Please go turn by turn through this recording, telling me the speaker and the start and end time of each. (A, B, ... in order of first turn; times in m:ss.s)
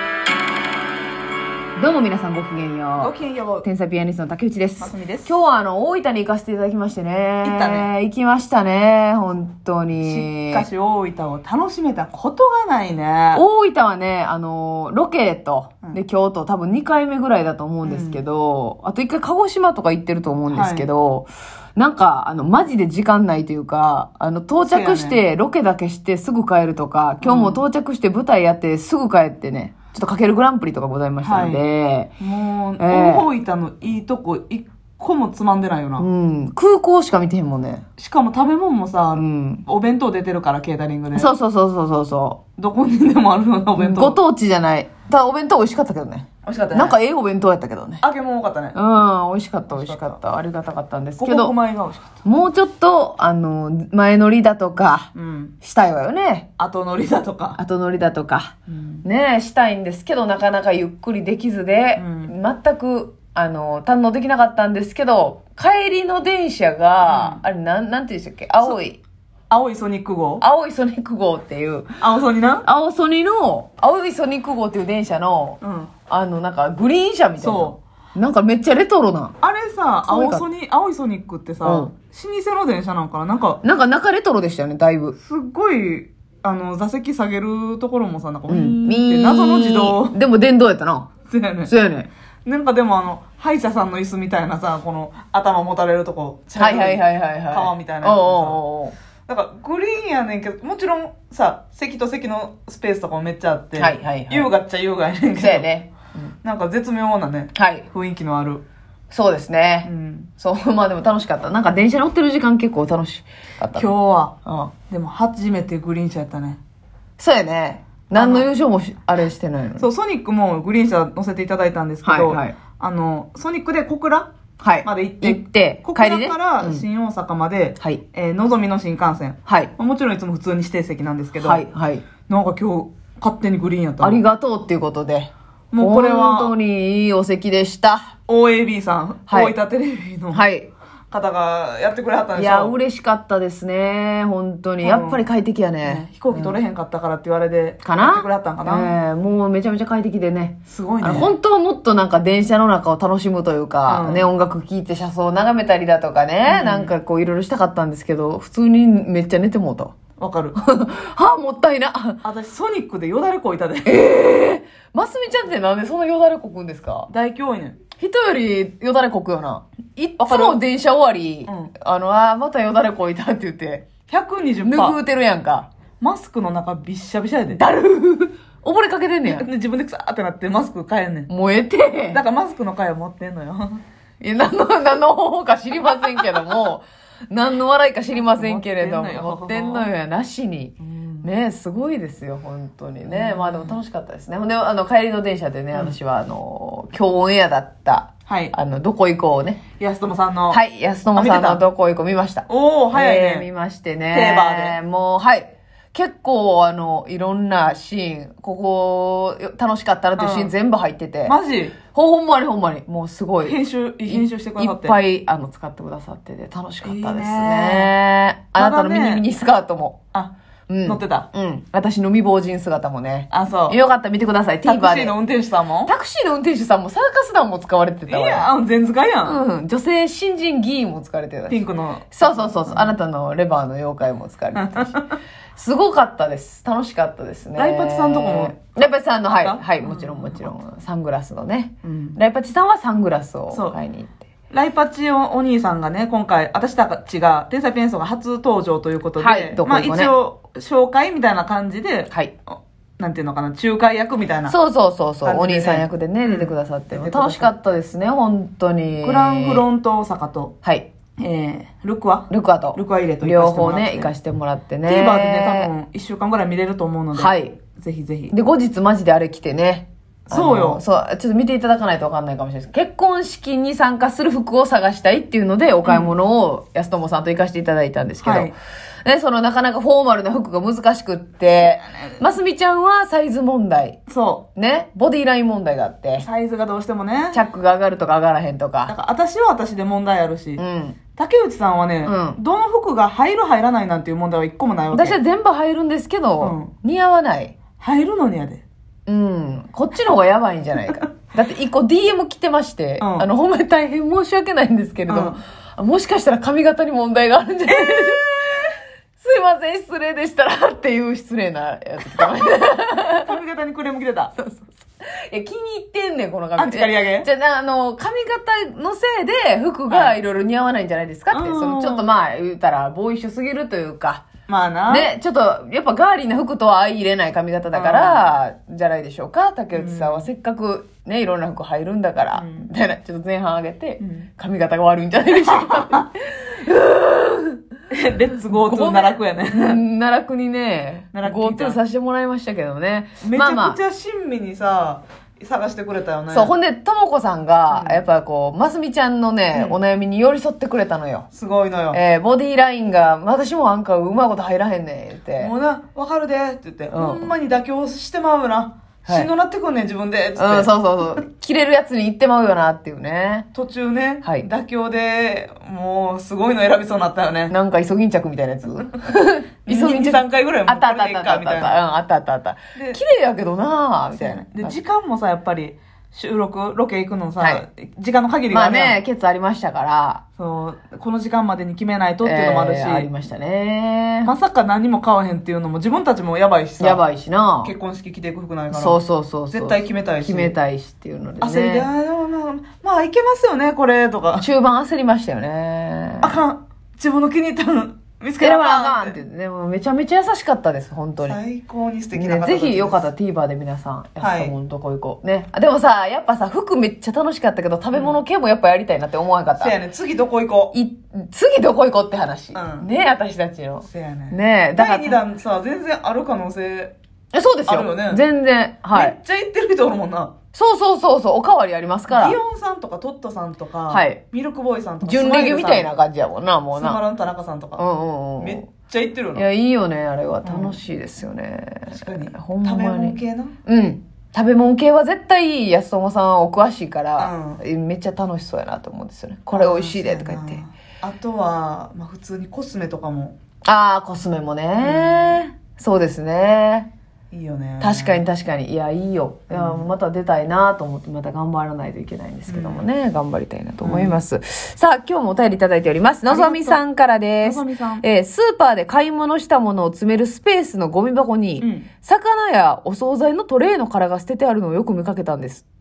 0:01.8-0:10.6 A
0:03.0-0:03.7 B
0:04.8-0:05.3 B
0:07.4-0:07.9 B
0:10.0-0:13.4 B
0:13.3-0:32.1 A
0:17.8-0:18.2 B
0:20.5-0:20.9 B
0:24.6-0:25.2 B
0:27.2-0:27.6 B
0:31.2-0:31.6 B
0:32.2-0:36.0 B
0:32.8-0:33.2 A
0:36.0-0:37.8 A
0:38.0-0:41.3 B
0:39.2-0:39.6 A
0:41.1-0:42.4 A
0:42.6-0:44.2 B
0:43.8-0:48.0 A
0:46.4-0:47.0 B
0:48.0-0:48.8 B
0:48.7-0:51.5 A
0:49.7-0:50.2 B
0:51.2-0:52.2 B
0:52.2-0:56.5 A
0:55.1-0:55.5 B
0:56.6-0:57.6 B
0:57.6-1:09.0 A
0:58.7-0:59.0 B
1:02.0-1:02.3 B
1:07.0-1:07.4 B
1:09.5-1:10.4 B
1:10.4-1:11.9 A
1:12.0-1:12.7 B
1:12.6-1:19.4 A
1:15.6-1:15.9 B
1:17.4-1:17.8 B
1:19.4-1:23.6 B
1:20.0-1:20.4 A
1:21.6-1:21.9 A
1:23.6-1:25.2 A
1:25.2-1:30.2 B
1:28.5-1:31.1 A
1:31.3-1:31.7 B
1:31.6-1:32.1 A
1:32.4-1:38.6 B
1:36.6-1:38.9 A
1:39.3-1:45.7 B
1:43.8-1:44.5 A
1:45.3-1:46.3 A
1:46.4-1:48.6 B
1:47.5-1:47.8 A
1:49.1-1:53.9 A
1:49.8-1:50.3 B
1:53.7-1:54.3 B
1:54.4-1:54.7 A
1:54.9-1:56.6 B
1:57.2-1:59.9 A
1:58.1-1:58.5 B
1:59.8-2:04.3 B
2:02.0-2:02.5 A
2:04.6-2:06.8 A
2:04.8-2:11.6 B
2:09.5-2:09.7 A
2:11.4-2:12.0 A
2:12.3-2:14.2 B
2:14.0-2:18.1 A
2:15.7-2:16.5 B
2:18.3-2:20.4 B
2:19.3-2:19.5 A
2:20.3-2:20.7 A
2:21.1-2:22.8 B
2:22.3-2:26.5 A
2:24.8-2:25.2 B
2:25.8-2:28.9 B
2:27.8-2:39.9 A
2:30.7-2:31.3 B
2:33.9-2:34.3 B
2:36.4-2:36.9 B
2:40.2-2:40.6 B
2:40.6-2:42.2 A
2:42.2-2:44.0 B
2:43.8-2:47.1 A
2:47.1-2:47.8 B
2:48.0-2:53.9 A
2:50.2-2:50.6 B
2:51.5-2:51.7 B
2:54.1-2:55.0 B
2:54.6-2:55.7 A
2:56.0-2:57.6 B
2:57.5-2:59.4 A
2:59.3-3:01.3 B
3:01.3-3:02.2 A
3:02.1-3:03.8 B
3:04.2-3:19.6 A
3:08.1-3:09.9 B
3:10.8-3:11.3 B
3:13.0-3:13.8 B
3:15.7-3:16.0 B
3:18.3-3:18.5 B
3:19.8-3:20.6 B
3:20.5-3:31.3 A
3:21.1-3:21.6 B
3:22.5-3:23.5 B
3:24.1-3:24.8 B
3:30.2-3:30.5 B
3:31.2-3:31.8 B
3:31.9-3:33.6 A
3:33.4-3:35.0 B
3:34.1-3:40.0 A
3:36.8-3:37.9 B
3:38.6-3:39.2 B
3:40.7-3:45.1 A
3:40.8-3:41.3 B
3:43.3-3:43.8 B
3:44.6-3:45.9 B
3:45.8-3:48.5 A
3:48.1-3:49.4 B
3:49.2-3:55.0 A
3:51.5-3:53.0 B
3:54.5-3:55.2 B
3:55.6-4:04.2 A
3:57.6-3:58.6 B
3:59.3-4:00.5 B
4:01.8-4:02.2 B
4:04.5-4:14.5 B
4:09.2-4:10.1 A
4:14.5-4:19.6 A
4:15.2-4:17.5 B
4:19.0-4:20.5 B
4:20.6-4:20.9 A
4:21.2-4:24.1 B
4:22.3-4:25.7 A
4:24.8-4:28.3 B
4:27.1-4:27.6 A
4:28.3-4:44.0 A
4:30.3-4:30.8 B
4:35.8-4:36.1 B
4:38.2-4:38.5 B
4:41.6-4:42.2 B
4:44.1-4:44.5 B
4:44.5-4:46.2 A
4:46.2-4:47.4 B
4:47.3-4:48.9 A
4:48.9-4:50.6 B
4:50.6-4:51.0 A
4:51.2-4:55.2 B
4:52.0-4:52.4 A
4:54.9-4:57.5 A
4:56.4-4:56.7 B
4:57.8-4:58.6 B
4:59.1-5:08.6 A
5:03.0-5:03.3 B
5:05.1-5:05.4 B
5:07.6-5:08.8 B
5:09.2-5:13.3 A
5:13.2-5:14.3 B
5:14.3-5:24.2 A
5:16.6-5:17.3 B
5:19.9-5:20.2 B
5:21.3-5:22.1 B
5:24.5-5:25.1 B
5:24.9-5:37.6 A
5:27.7-5:28.2 B
5:29.7-5:30.3 B
5:32.3-5:32.7 B
5:34.0-5:34.3 B
5:35.3-5:36.0 B
5:37.9-5:39.8 B
5:38.5-5:43.8 A
5:41.1-5:41.8 B
5:43.2-5:46.5 B
5:46.3-5:51.3 A
5:47.7-5:48.0 B
5:49.5-5:49.8 B
5:51.3-5:52.0 B
5:51.9-5:55.5 A
5:55.4-6:00.7 B
5:56.9-5:57.3 A
6:00.4-6:03.5 A
6:03.5-6:07.5 B
6:07.5-6:14.7 A
6:09.7-6:11.8 B
6:12.7-6:13.0 B
6:14.1-6:19.0 B
6:18.5-6:20.2 A
6:20.4-6:23.1 B
6:22.2-6:24.3 A
6:24.2-6:27.0 B
6:26.8-6:27.7 A
6:27.6-6:30.5 B
6:28.7-6:31.9 A
6:31.4-6:34.4 B
6:34.4-6:36.4 A
6:36.2-6:39.2 B
6:38.4-6:41.4 A
6:41.2-6:43.0 B
6:42.1-6:49.7 A
6:44.2-6:44.5 B
6:47.9-6:48.2 B
6:49.6-6:50.7 B
6:50.7-6:55.2 A
6:52.5-6:52.9 B
6:53.8-6:56.9 B
6:57.3-6:59.2 A
6:57.6-6:58.2 B
6:58.9-7:00.3 B
7:00.5-7:02.4 A
7:02.1-7:05.9 B
7:03.9-7:04.2 A
7:05.0-7:07.0 A
7:06.7-7:07.8 B
7:07.8-7:08.6 A
7:08.4-7:09.4 B
7:09.3-7:20.6 A
7:10.4-7:10.8 B
7:11.9-7:13.5 B
7:17.2-7:17.6 B
7:19.5-7:23.4 B
7:23.6-7:26.9 A
7:24.8-7:25.4 B
7:27.3-7:28.2 B
7:27.8-7:45.6 A
7:29.5-7:29.9 B
7:32.5-7:32.9 B
7:33.8-7:34.2 B
7:36.3-7:36.8 B
7:37.4-7:38.0 B
7:41.6-7:41.9 B